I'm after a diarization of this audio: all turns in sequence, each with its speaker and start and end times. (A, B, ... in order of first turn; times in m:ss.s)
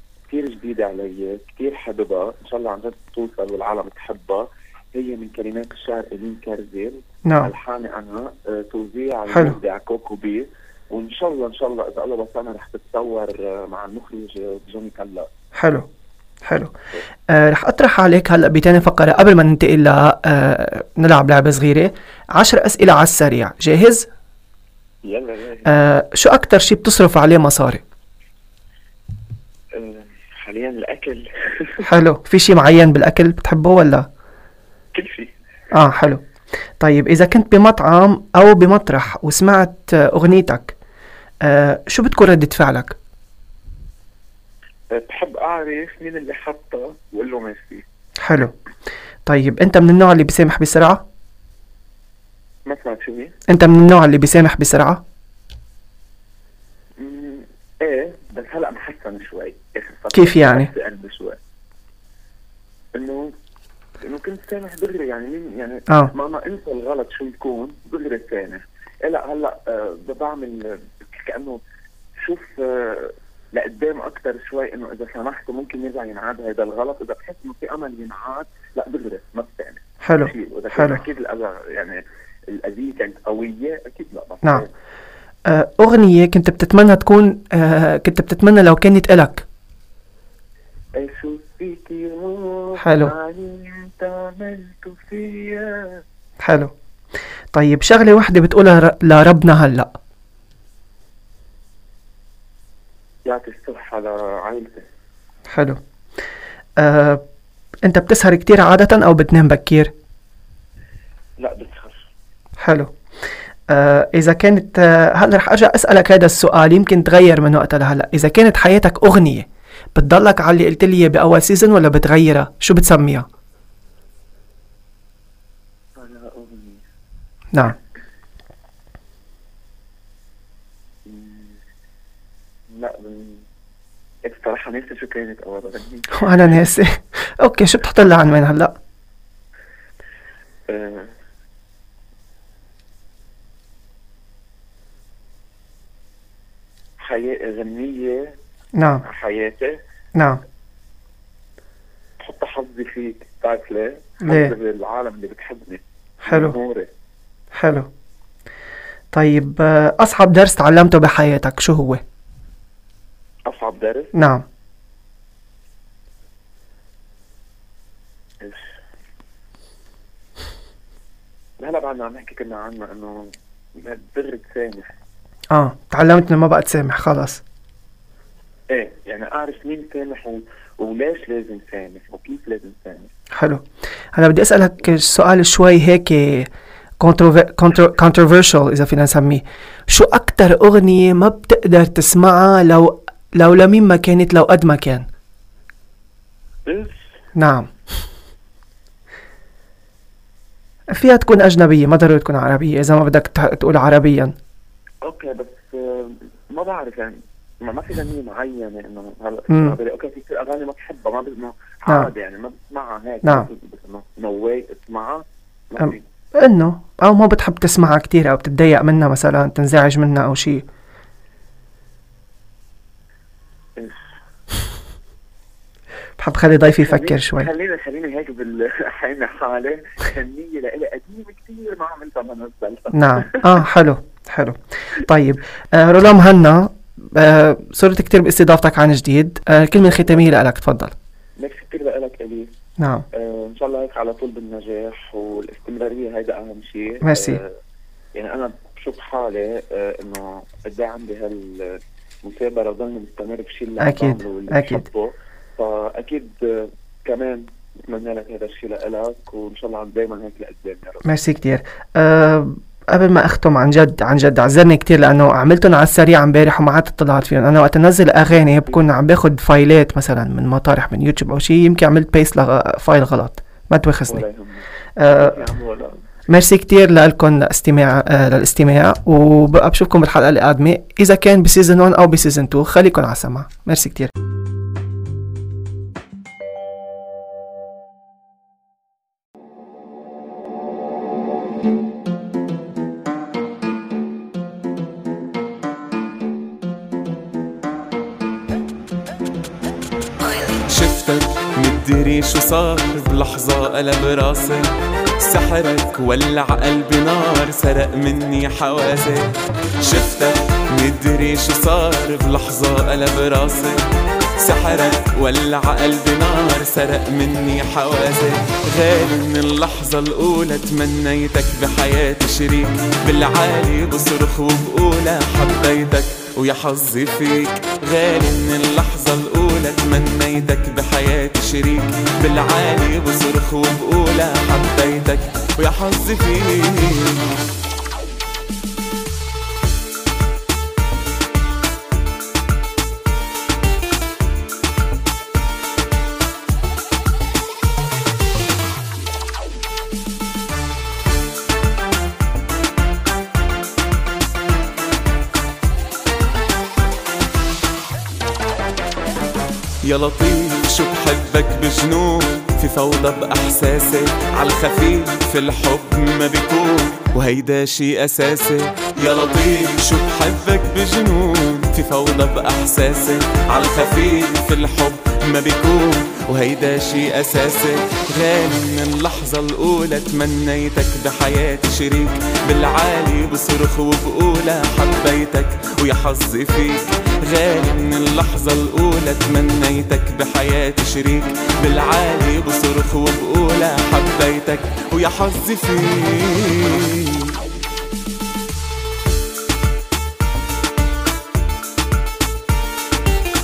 0:00.3-0:15.3 A
0:07.2-0:07.5 B
0:09.3-0:09.6 B
0:15.6-0:15.8 B
0:16.4-0:16.7 B
0:17.3-0:24.1 B
0:25.0-0:25.7 A
0:25.6-0:27.8 B
0:29.7-0:31.8 A
0:31.8-0:34.1 B
0:34.9-0:35.3 A
0:35.7-0:36.2 B
0:36.8-0:40.8 B
0:41.4-0:42.9 B
0:44.9-0:47.8 A
0:48.2-0:48.5 B
0:49.2-0:51.0 B
0:52.6-0:53.3 A
0:53.5-0:55.0 B
0:57.0-1:01.4 A
1:00.1-1:00.7 B
1:02.9-1:03.3 A
1:04.0-1:11.6 A
1:12.2-1:24.7 A
1:20.0-1:21.0 B
1:25.5-1:29.4 B
1:31.0-1:36.0 A
1:32.8-1:33.1 B
1:36.4-1:36.7 B
1:37.5-1:39.9 B
1:43.2-1:44.8 A
1:45.5-1:45.8 B
1:46.8-1:47.2 B
1:47.8-1:49.9 B
1:51.4-1:52.1 A
1:52.6-1:52.9 B
1:53.7-2:03.2 B
2:06.0-2:06.8 A
2:11.0-2:11.6 A
2:12.7-2:13.4 A
2:14.2-2:16.7 A
2:16.2-2:18.8 B
2:20.7-2:21.1 A
2:27.0-2:28.3 A
2:28.8-2:29.0 B
2:29.0-2:29.8 A
2:30.2-2:30.4 B
2:32.2-2:36.9 A
2:34.2-2:34.5 B
2:36.2-2:36.6 B
2:37.6-2:37.9 B
2:39.1-2:42.0 B
2:43.5-2:44.1 A
2:44.1-2:44.4 B
2:48.4-2:48.7 A
2:51.6-2:54.9 A
2:55.5-2:57.4 B
2:58.7-3:03.1 A
3:03.3-3:03.6 B
3:04.1-3:06.5 B
3:07.0-3:15.0 B
3:16.6-3:17.0 A
3:17.4-3:17.7 B
3:20.9-3:24.3 B
3:25.0-3:36.0 A
3:29.5-3:29.8 B
3:35.8-3:40.6 B
3:46.2-3:47.5 B
3:46.7-3:53.5 A
3:52.9-4:00.9 B
3:59.8-4:00.4 A
4:01.4-4:02.5 A
4:02.8-4:03.0 B
4:03.1-4:07.6 A
4:07.0-4:07.4 B
4:08.2-4:21.1 A
4:13.8-4:14.8 B
4:21.0-4:34.2 B
4:28.3-4:28.8 A
4:34.1-4:36.0 A
4:35.0-4:35.4 B
4:36.3-4:44.1 B
5:00.7-5:04.6 C
5:05.2-5:09.3 C
5:09.8-5:13.8 C
5:14.4-5:37.2 C
5:59.9-6:37.3 C